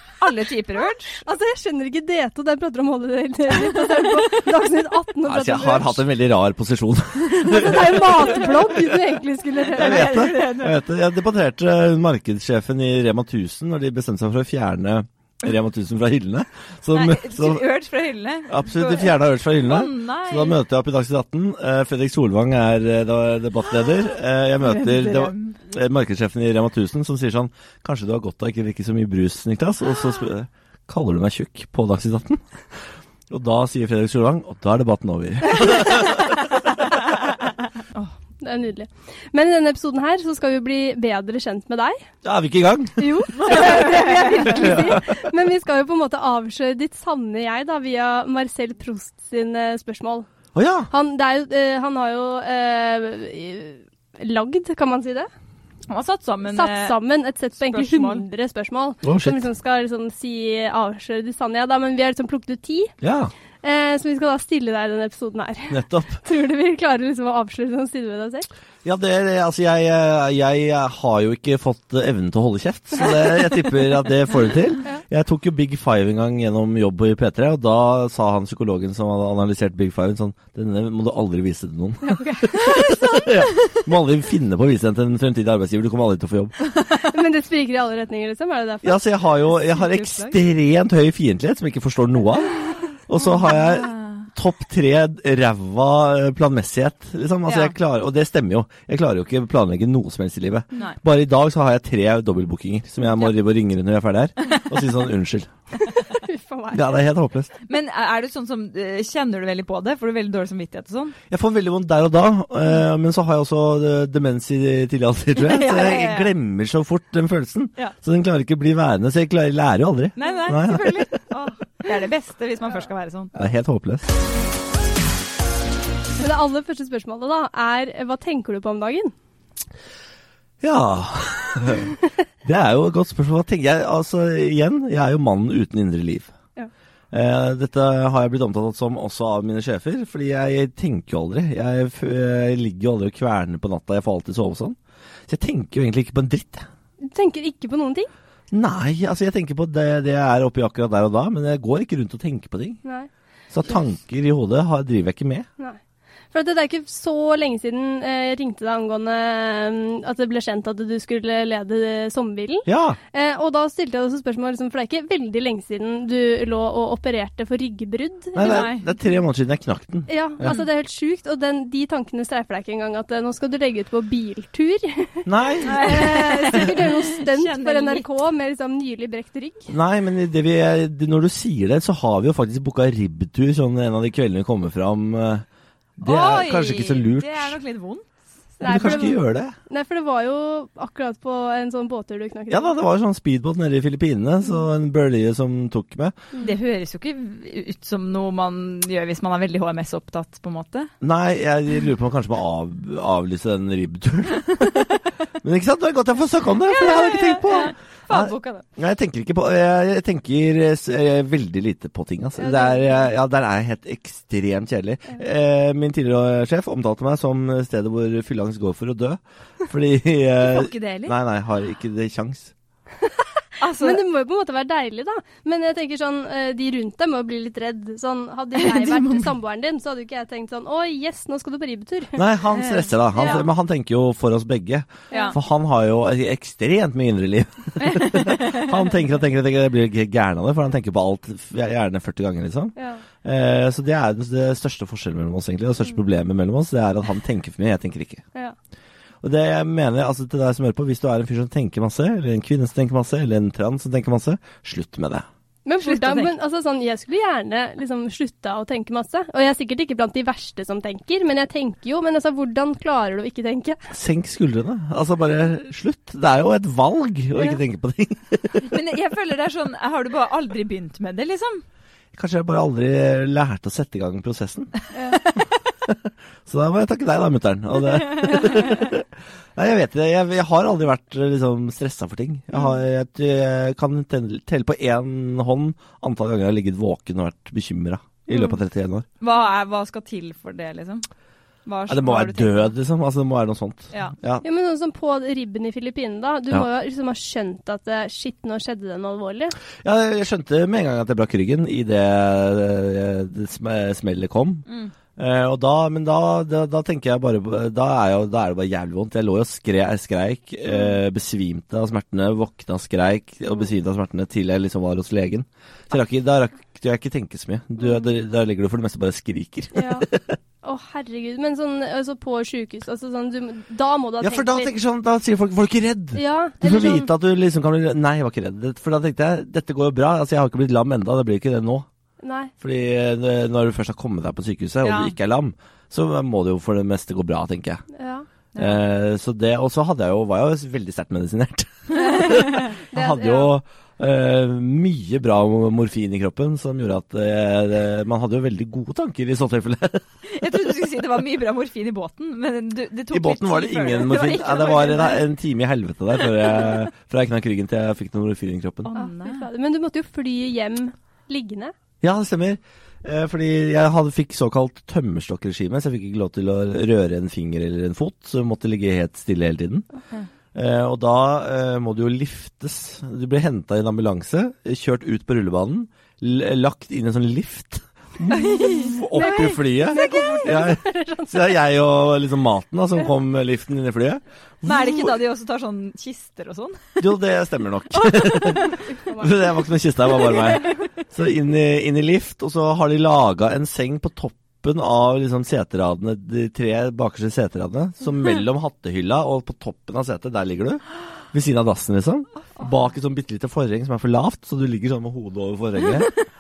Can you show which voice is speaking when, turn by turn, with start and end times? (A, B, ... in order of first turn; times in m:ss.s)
0:00.2-0:01.2 A
0:01.2-0:06.0 B
0:05.2-0:09.0 C
0:07.3-0:10.3 B
0:09.8-0:10.8 A
0:09.8-0:17.6 C
0:16.9-0:20.6 A
0:18.5-0:32.4 C
0:24.6-0:25.6 A
0:33.3-0:36.4 C
0:38.4-0:42.0 B
0:42.2-0:43.9 C
0:43.0-0:50.3 B
0:43.4-0:44.8 A
0:44.4-0:45.3 C
0:50.5-0:50.9 C
0:50.9-0:55.3 B
0:55.9-0:57.0 A
0:56.4-1:02.9 B
0:57.6-0:58.2 A
0:59.0-0:59.4 C
1:03.0-1:03.3 C
1:03.6-1:08.5 B
1:05.7-1:06.2 C
1:08.8-1:26.5 C
1:22.1-1:23.0 B
1:26.9-1:29.0 B
1:28.8-1:45.5 C
1:29.6-1:30.4 A
1:33.2-1:34.3 A
1:37.5-1:37.8 A
1:45.9-1:46.9 B
1:46.7-1:47.5 C
1:47.7-1:51.2 A
1:51.3-2:01.2 C
1:55.4-1:56.3 A
2:00.2-2:03.3 A
2:03.3-2:04.1 C
2:06.2-2:09.1 B
2:10.6-2:11.9 C
2:12.4-2:16.3 C
2:17.1-2:26.7 C
2:27.0-2:28.1 B
2:28.5-2:32.8 C
2:33.5-2:35.5 C
2:36.3-2:48.7 B
2:42.7-2:43.0 C
2:48.4-2:50.6 C
2:48.4-2:48.9 A
2:50.1-2:59.7 B
2:55.2-2:56.7 C
2:55.6-2:58.0 A
2:59.7-3:05.4 C
3:06.0-3:07.6 C
3:06.0-3:09.1 A
3:08.6-3:12.8 B
3:08.6-3:09.5 C
3:12.5-3:16.1 C
3:16.4-3:20.9 A
3:21.0-3:42.5 C
3:26.6-3:28.6 A
3:32.5-3:32.8 B
3:40.4-3:41.1 A
3:43.6-3:44.0 A
3:43.8-3:52.2 B
3:48.6-3:49.3 A
3:52.2-4:08.2 C
3:52.5-3:53.4 A
3:53.2-3:53.5 B
3:55.1-3:55.4 A
3:55.1-3:55.4 B
3:57.8-3:58.7 A
4:02.8-4:03.0 B
4:09.2-4:15.2 C
4:15.6-4:23.8 B
4:15.8-4:16.3 A
4:23.9-4:28.7 C
4:28.6-4:31.6 A
4:32.1-4:34.7 C
4:35.0-4:35.2 B
4:35.1-4:35.4 A
4:35.8-4:49.1 C
4:49.2-4:51.0 A
4:51.6-4:52.7 A
4:51.9-4:54.4 C
4:54.4-4:59.6 B
4:59.8-5:04.6 C
5:04.7-5:04.9 A
5:05.2-5:20.4 C
5:19.7-5:20.1 B
5:20.6-5:24.7 B
5:24.2-5:31.9 C
5:26.1-5:27.1 B
5:32.2-5:32.5 B
5:32.6-5:37.8 C
5:34.8-5:35.1 A
5:38.0-5:38.2 B
5:38.5-5:38.8 A
5:38.6-5:50.0 C
5:42.1-5:43.5 B
5:42.2-5:42.6 A
5:50.2-5:55.2 A
5:53.1-5:58.9 C
5:58.9-5:59.5 A
5:59.0-6:01.7 B
6:02.0-6:09.9 C
6:10.5-6:25.1 C
6:18.3-6:20.4 A
6:18.5-6:21.5 B
6:24.6-6:27.1 A
6:27.0-6:46.1 C
6:28.0-6:28.8 A
6:29.0-6:29.7 B